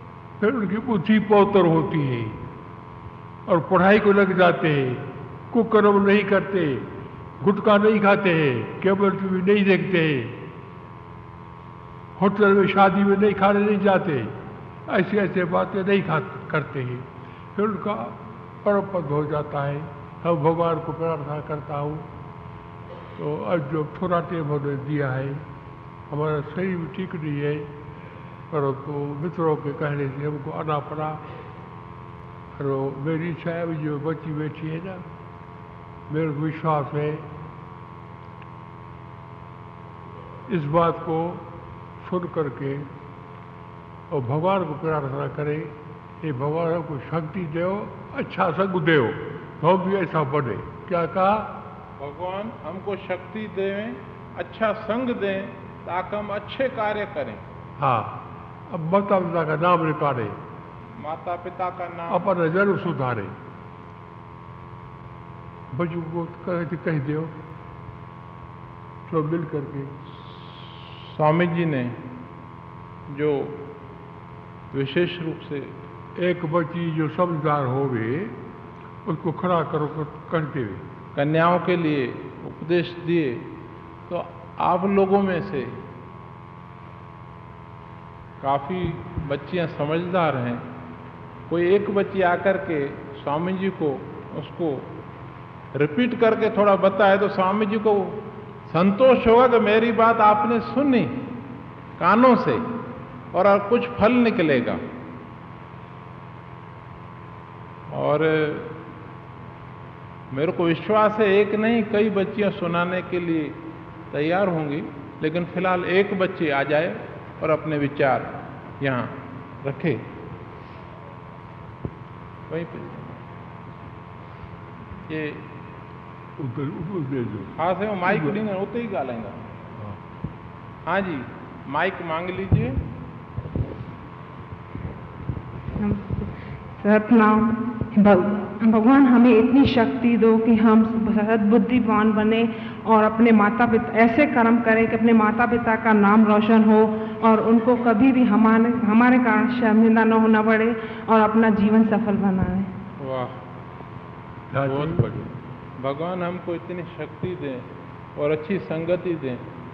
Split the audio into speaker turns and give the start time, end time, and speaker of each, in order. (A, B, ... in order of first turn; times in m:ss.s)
0:00.4-0:02.4 A
0:03.5-0:06.9 A
0:07.4-0:10.4 A
0:12.2-0:14.3 A
0:14.9-0:22.1 A
0:23.2-0:25.4 A
0:26.1-0:27.8 A
0:28.5-0:31.2 A
0:32.6-0:35.0 A
0:36.1-0:37.3 A
0:40.5-0:42.9 A
0:44.1-0:51.6 A
0:52.0-0:57.4 B
0:57.8-1:00.4 A
1:01.0-1:02.3 B
1:02.1-1:03.3 A
1:05.7-1:07.3 A
1:09.1-1:09.9 A
1:10.4-1:12.0 B
1:13.1-1:13.7 B
1:14.7-1:15.8 B
1:16.2-1:18.4 A
1:19.0-1:20.8 A
1:21.2-1:23.6 B
1:24.1-1:25.8 B
1:28.4-1:30.6 B
1:31.5-1:34.9 B
1:35.7-1:41.3 B
1:42.0-1:42.6 B
1:43.3-1:44.8 B
1:47.9-1:48.8 B
1:50.3-2:00.1 B
2:02.5-2:03.2 B
2:05.1-2:05.5 B
2:06.4-2:08.4 A
2:07.6-2:09.5 B
2:10.8-2:12.8 B
2:15.8-2:32.7 C
2:33.0-2:33.4 B
2:34.5-2:35.3 A
2:34.6-2:35.3 B
2:35.8-2:39.5 B